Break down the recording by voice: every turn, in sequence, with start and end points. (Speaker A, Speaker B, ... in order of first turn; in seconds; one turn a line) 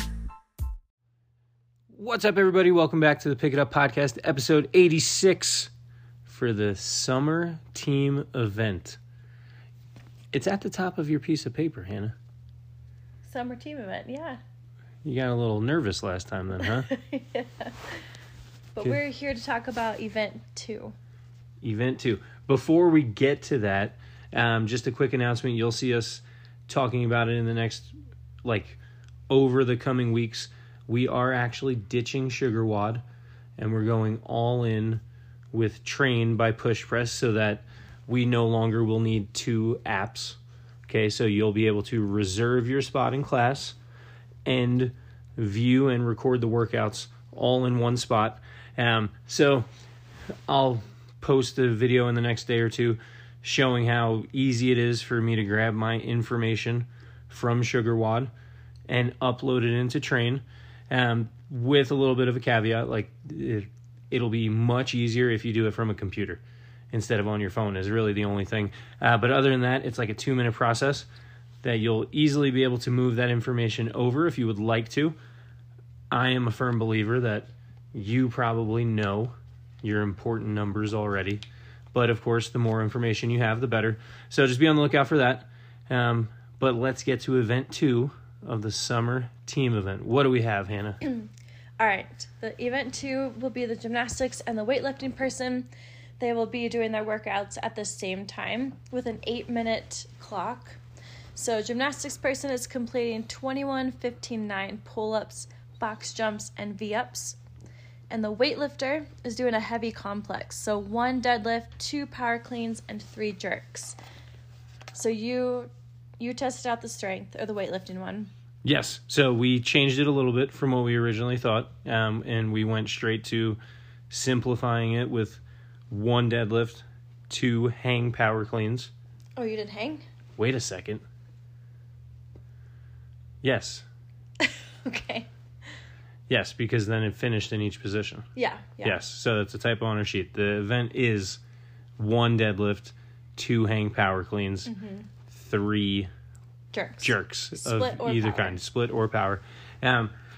Speaker A: 1.9-5.7
Speaker A: 6.3-9.0
Speaker A: 10.3-12.1
Speaker B: 13.2-14.4
Speaker A: 15.0-16.9
Speaker B: 16.6-18.0
Speaker B: 18.8-20.9
Speaker A: 21.6-27.9
Speaker A: 28.4-28.8
Speaker A: 29.3-33.0
Speaker A: 33.6-43.8
Speaker A: 44.5-49.7
Speaker A: 50.5-58.3
Speaker A: 58.9-66.4
Speaker A: 66.9-71.1
Speaker A: 71.6-75.2
Speaker A: 76.1-81.4
Speaker A: 81.9-91.0
Speaker B: 91.0-95.7
Speaker B: 96.2-100.8
Speaker B: 101.3-107.4
Speaker B: 108.1-114.0
Speaker B: 114.9-118.3
Speaker A: 118.6-123.6
Speaker A: 124.1-128.9
Speaker B: 129.4-130.0
Speaker A: 130.4-131.0
Speaker A: 133.4-133.8
Speaker B: 134.8-135.3
Speaker A: 136.3-138.2
Speaker B: 138.4-139.0
Speaker A: 138.8-141.4
Speaker A: 142.0-144.7
Speaker B: 144.7-145.1
Speaker A: 145.3-146.1
Speaker B: 146.7-148.6
Speaker A: 147.0-150.1